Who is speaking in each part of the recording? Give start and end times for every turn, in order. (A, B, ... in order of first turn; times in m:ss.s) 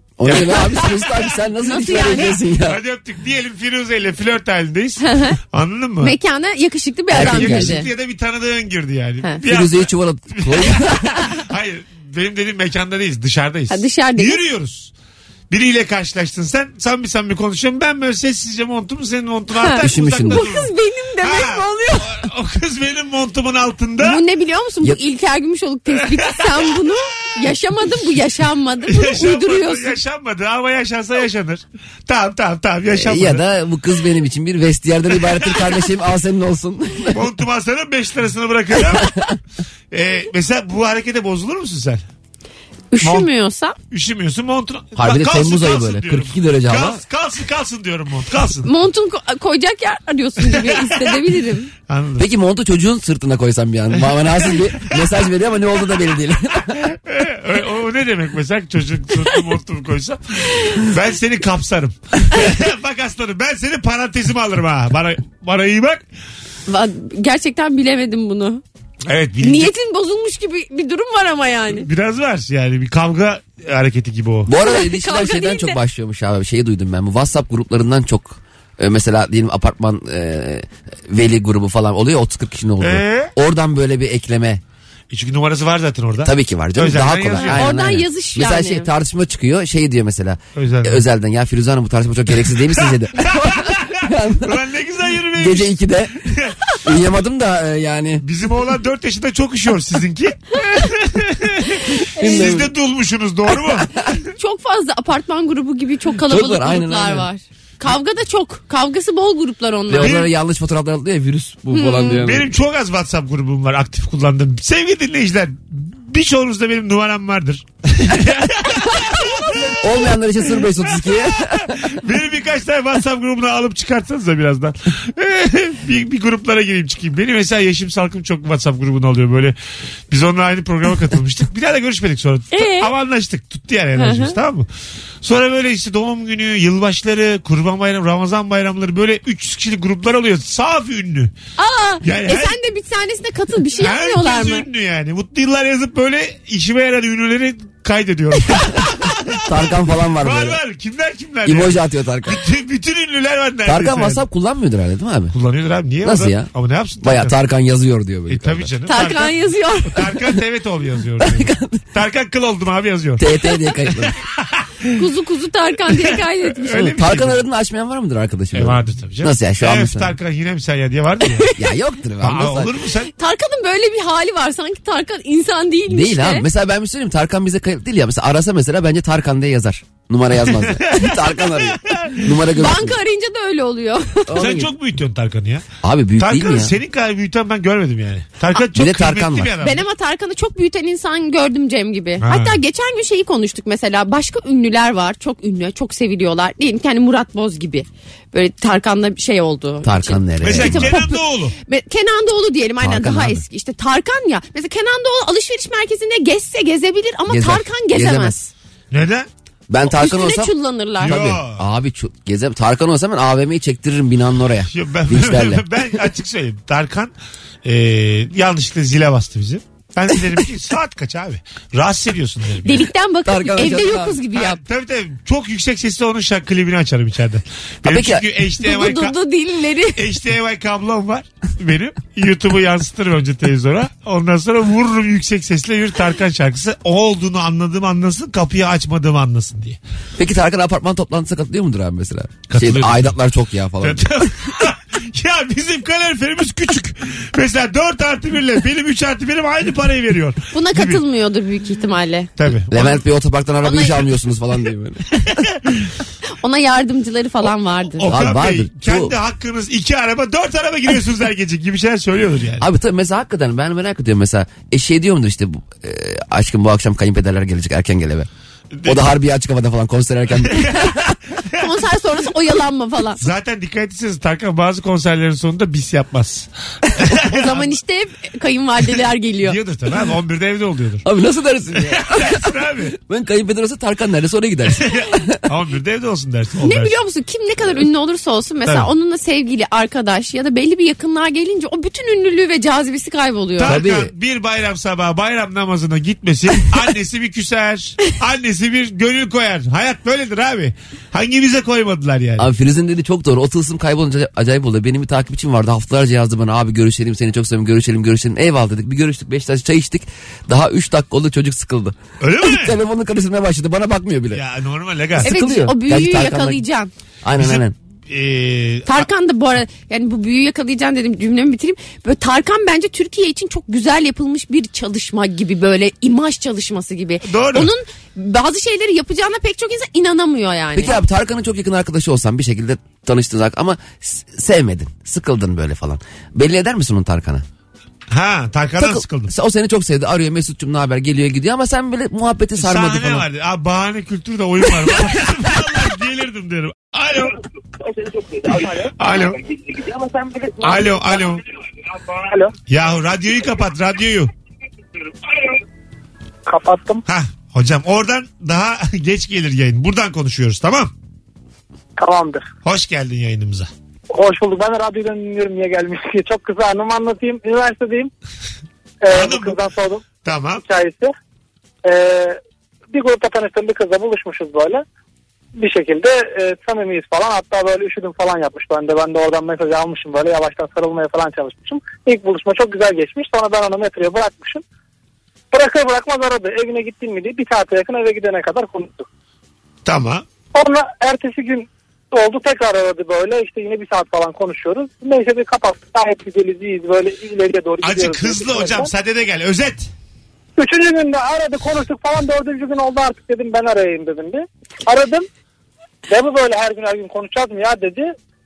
0:00.2-0:02.8 A
0:00.2-0:00.9 B
0:01.6-0:02.3 C
0:02.6-0:06.1 B
0:05.0-0:05.4 C
0:06.0-0:07.9 C
0:07.1-0:07.8 A
0:07.1-0:14.9 B
0:09.4-0:11.1 A
0:13.7-0:14.4 C
0:15.5-0:20.7 B
0:19.6-0:22.2 C
0:19.8-0:20.5 A
0:21.2-0:24.2 B
0:24.0-0:30.0 C
0:25.9-0:26.7 B
0:28.9-0:33.4 B
0:32.9-0:37.2 A
0:35.4-0:35.8 B
0:37.1-0:39.2 B
0:39.9-0:42.0 B
0:42.9-0:43.8 C
0:43.0-0:43.3 B
0:43.9-0:48.7 B
0:45.0-0:47.0 A
0:48.6-0:51.7 C
0:50.5-0:51.1 B
0:51.9-0:52.2 B
0:52.2-0:56.8 A
0:54.0-0:55.0 B
0:56.8-1:06.0 B
1:06.7-1:08.6 C
1:09.1-1:09.7 B
1:09.4-1:11.9 C
1:11.7-1:14.5 B
1:14.4-1:24.6 A
1:14.6-1:15.8 C
1:22.8-1:23.3 B
1:25.1-1:27.6 B
1:26.2-1:34.6 A
1:27.4-1:28.9 C
1:30.6-1:31.0 B
1:32.7-1:36.8 B
1:35.4-1:38.2 A
1:38.2-1:43.9 B
1:42.2-1:42.7 A
1:42.2-1:42.5 C
1:43.5-1:44.1 A
1:44.4-1:50.2 C
1:46.2-1:47.3 A
1:49.9-1:52.5 A
1:50.0-1:50.3 B
1:51.7-1:52.2 C
1:52.2-1:59.7 B
1:59.8-2:01.9 A
2:01.5-2:09.6 B
2:10.1-2:14.7 B
2:12.5-2:12.9 C
2:14.0-2:14.4 C
2:15.2-2:21.3 B
2:21.6-2:24.6 C
2:22.0-2:22.6 B
2:23.8-2:34.2 B
2:29.4-2:30.6 A
2:31.4-2:32.4 A
2:33.6-2:35.4 A
2:35.3-2:37.4 B
2:36.0-2:36.5 A
2:37.0-2:38.7 A
2:38.3-2:43.3 B
2:38.9-2:40.0 C
2:41.2-2:41.8 A
2:43.2-2:44.2 A
2:44.2-2:45.0 B
2:44.9-2:46.9 C
2:46.6-2:47.4 B
2:46.7-2:50.1 A
2:48.5-2:51.5 B
2:51.6-2:52.7 A
2:52.2-2:53.1 B
2:53.2-2:56.4 C
2:55.9-3:03.0 A
3:00.5-3:02.3 B
3:02.6-3:04.3 C
3:04.3-3:04.7 A
3:04.4-3:05.7 B
3:05.8-3:06.8 A
3:06.2-3:09.8 B
3:08.7-3:09.5 A
3:09.6-3:28.5 C
3:12.2-3:12.6 B
3:19.8-3:21.0 A
3:20.4-3:21.6 B
3:22.8-3:23.4 A
3:27.3-3:28.4 A
3:28.9-3:29.3 B
3:29.7-3:35.7 A
3:29.9-3:31.2 C
3:31.0-3:31.6 B
3:34.7-3:37.1 B
3:37.6-3:42.9 B
3:42.6-3:44.6 C
3:43.2-3:44.2 A
3:44.3-3:49.1 B
3:47.8-3:48.3 A
3:48.6-3:50.0 C
3:49.9-3:59.8 B
4:00.2-4:04.3 A
4:02.5-4:03.1 B
4:03.8-4:11.0 B
4:10.5-4:12.3 C
4:12.4-4:13.0 B
4:12.7-4:15.2 A
4:13.6-4:13.9 C
4:15.3-4:15.9 B
4:16.4-4:18.1 C
4:18.0-4:22.6 B
4:18.1-4:19.1 A
4:22.6-4:28.3 A
4:28.8-4:29.1 B
4:28.8-4:30.9 A
4:30.6-4:31.6 B
4:31.5-4:33.2 C
4:33.2-4:37.7 B
4:37.1-4:39.6 C
4:39.4-4:41.0 B
4:41.0-4:45.4 A
4:41.8-4:42.9 B
4:44.8-4:47.0 B
4:46.6-4:53.8 C
4:53.6-5:02.5 B
4:53.6-4:54.1 A
5:02.4-5:14.4 A
5:12.2-5:12.8 B
5:14.3-5:15.3 B
5:15.2-5:16.6 A
5:15.2-5:16.9 C
5:17.2-5:17.7 A
5:17.4-5:19.1 B
5:18.9-5:31.0 C
5:27.2-5:27.7 B
5:30.8-5:37.4 A
5:38.1-5:39.3 B
5:38.8-5:43.2 A
5:42.6-5:47.4 B
5:49.0-5:49.4 B
5:50.6-5:51.4 B
5:52.2-5:52.5 D
5:52.7-5:54.3 B
5:56.4-5:57.0 D
5:57.0-6:00.9 B
6:02.0-6:02.4 D
6:02.6-6:03.7 B
6:04.1-6:08.1 D
6:09.0-6:10.0 D
6:09.1-6:09.6 B
6:10.2-6:10.6 B
6:10.6-6:11.1 D
6:11.8-6:12.4 D
6:12.9-6:14.8 D
6:15.6-6:24.6 D
6:25.5-6:29.0 D
6:29.9-6:30.2 B
6:30.5-6:38.9 D
6:37.8-6:39.9 B
6:40.6-6:45.3 D
6:46.1-6:48.1 D